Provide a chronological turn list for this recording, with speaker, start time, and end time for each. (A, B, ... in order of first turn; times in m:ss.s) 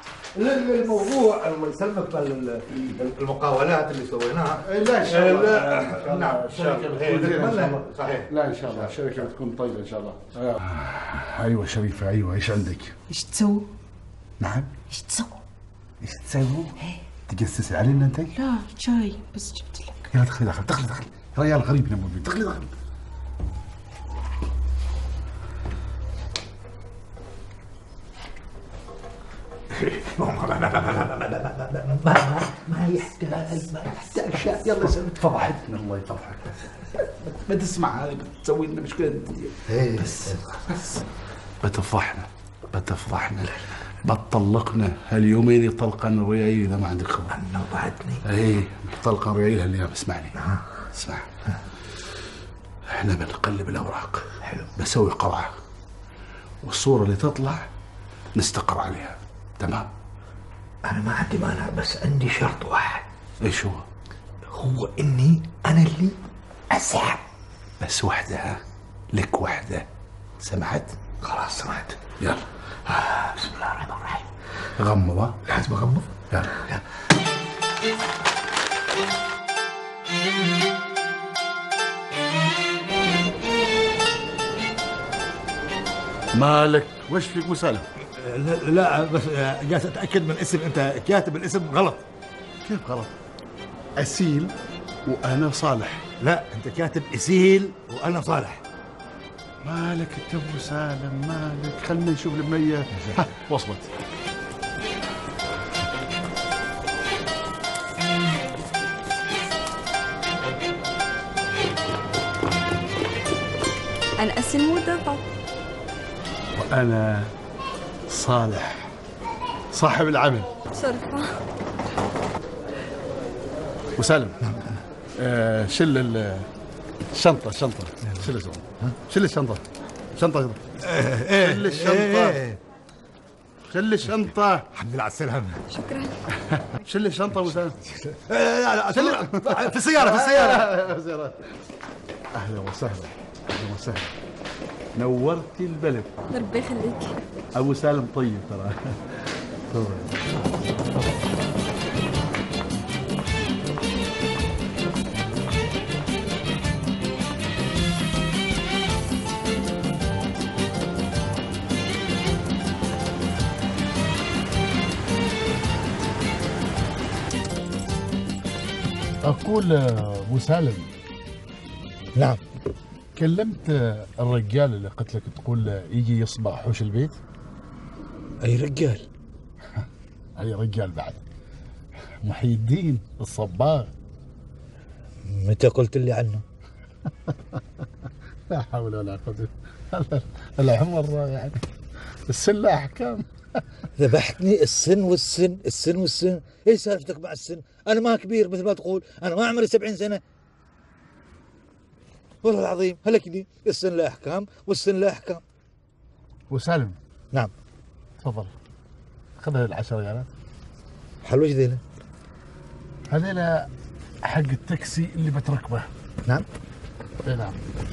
0:00.3-0:09.2 A
0:04.6-0:13.0 B
0:13.1-0:13.7 C
0:14.4-0:14.7 B
0:14.9-0:15.4 C
0:16.0-0:18.3 B
0:18.4-0:20.1 C
0:20.1-0:22.7 B
0:29.7-0:35.5 A
0:34.1-0:41.0 B
0:39.7-0:40.6 A
0:41.6-0:47.4 B
0:47.3-0:48.2 A
0:48.2-0:51.3 B
0:50.3-0:50.6 A
0:52.9-0:55.5 B
0:54.4-0:54.7 A
0:56.6-0:57.7 B
0:58.3-0:59.9 B
1:00.8-1:03.0 A
1:03.4-1:03.8 B
1:04.4-1:06.2 A
1:06.7-1:07.2 A
1:07.8-1:08.6 B
1:09.1-1:09.8 B
1:10.4-1:11.0 B
1:11.2-1:12.0 A
1:12.2-1:12.5 B
1:12.8-1:14.3 A
1:14.7-1:15.4 B
1:15.4-1:16.8 A
1:16.3-1:16.6 B
1:26.3-1:27.8 B
1:28.1-1:32.0 A
1:32.6-1:33.1 B
1:34.0-1:34.5 B
1:35.0-1:36.1 B
1:36.2-1:38.6 A
1:39.6-1:43.9 B
1:54.2-1:55.2 D
1:56.6-1:57.3 B
1:58.1-1:58.9 B
1:59.7-2:00.5 B
2:00.7-2:01.4 D
2:04.0-2:04.4 B
2:04.4-2:04.8 A
2:05.2-2:06.5 B
2:07.1-2:09.6 B
2:10.2-2:10.7 B
2:10.8-2:12.6 A
2:11.3-2:12.4 B
2:13.7-2:14.6 B
2:14.7-2:15.6 A
2:15.7-2:16.2 D
2:16.4-2:17.8 B
2:17.8-2:20.7 A
2:18.9-2:21.4 B
2:22.3-2:24.1 B
2:25.0-2:26.1 B
2:26.3-2:27.2 D
2:27.5-2:29.1 B
2:29.7-2:30.2 B
2:49.2-2:50.9 B
2:52.2-2:52.4 A
2:53.2-2:57.2 B
2:58.4-2:59.1 A
3:00.4-3:01.2 B
3:02.2-3:03.9 B
3:05.2-3:06.4 A
3:08.5-3:11.6 B
3:12.3-3:13.6 B
3:14.0-3:20.2 A
3:22.4-3:25.4 A
3:26.5-3:27.0 B
3:28.2-3:28.5 B
3:29.4-3:30.3 B
3:31.2-3:31.8 A
3:33.1-3:33.7 B
3:34.2-3:35.9 B
3:37.2-3:37.6 B